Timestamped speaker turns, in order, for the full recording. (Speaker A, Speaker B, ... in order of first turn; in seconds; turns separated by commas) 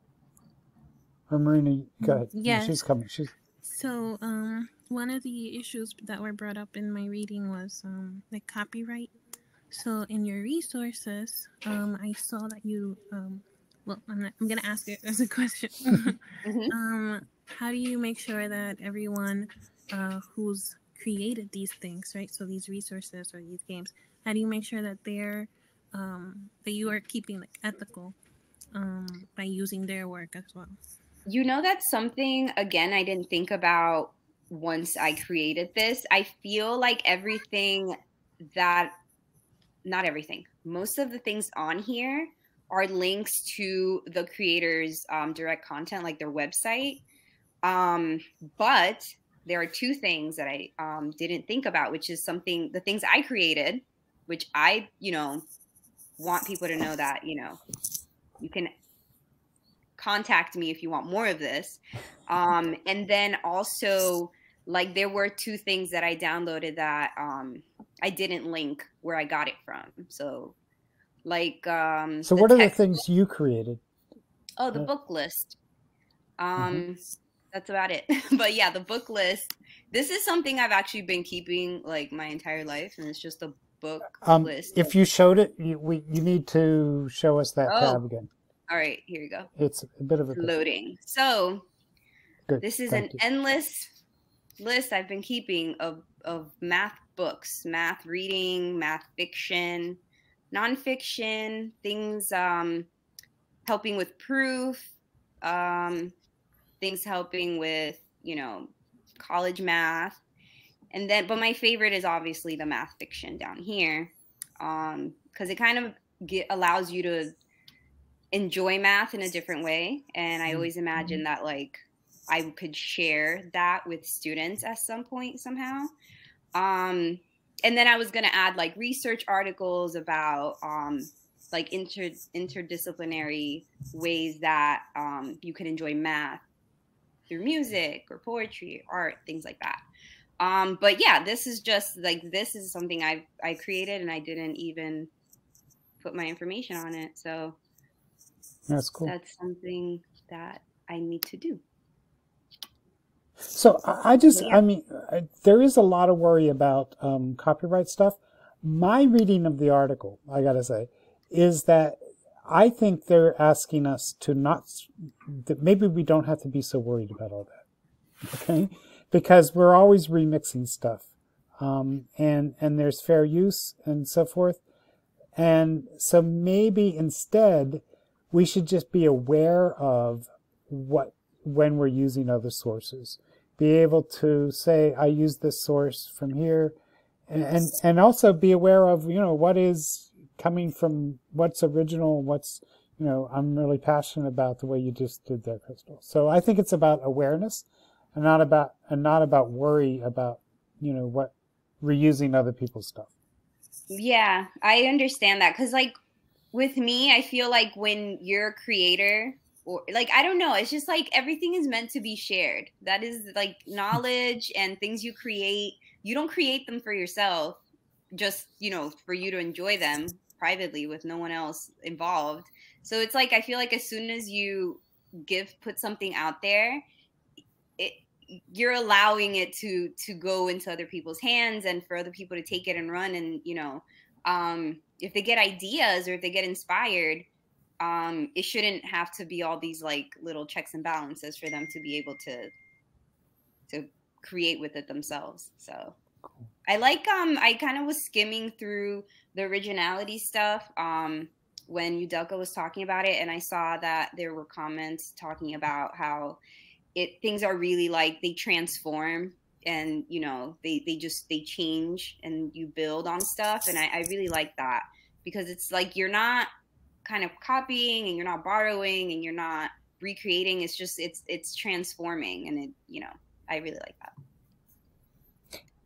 Speaker A: 1.3-3.3, Speaker B: 2.3-2.8, Speaker B: 3.6-9.1, Speaker B: 9.7-28.2, Speaker C: 16.4-16.7, Speaker B: 28.7-30.8, Speaker C: 31.3-38.0, Speaker C: 38.5-38.9, Speaker C: 39.9-47.0, Speaker C: 47.6-55.5, Speaker C: 56.2-57.6, Speaker C: 58.4-58.7, Speaker C: 60.0-70.5, Speaker C: 71.2-73.0, Speaker A: 72.2-73.8, Speaker C: 74.6-75.6, Speaker C: 76.4-77.0, Speaker A: 76.6-76.8, Speaker C: 77.5-84.8, Speaker A: 84.2-88.3, Speaker C: 87.7-88.0, Speaker C: 88.7-89.5, Speaker A: 89.6-90.5, Speaker C: 90.3-91.7, Speaker A: 92.5-93.2, Speaker C: 92.6-93.9, Speaker C: 94.6-100.0, Speaker C: 100.5-102.9, Speaker C: 103.7-106.2, Speaker C: 106.8-110.2, Speaker C: 110.9-117.3, Speaker C: 118.3-125.9, Speaker A: 120.5-121.1, Speaker C: 126.5-136.4, Speaker C: 137.3-139.8, Speaker C: 140.4-145.1, Speaker C: 146.0-147.6, Speaker A: 148.7-149.1, Speaker C: 149.1-151.6, Speaker A: 153.5-167.6, Speaker C: 154.3-154.6, Speaker A: 168.3-171.1, Speaker A: 171.6-174.6, Speaker A: 175.4-186.8, Speaker A: 187.3-203.1, Speaker C: 203.9-206.0, Speaker C: 206.5-217.6, Speaker C: 218.1-226.8, Speaker C: 227.8-237.3, Speaker C: 237.8-242.5, Speaker C: 243.7-246.0, Speaker C: 246.7-256.4, Speaker C: 257.0-266.5, Speaker C: 267.1-274.1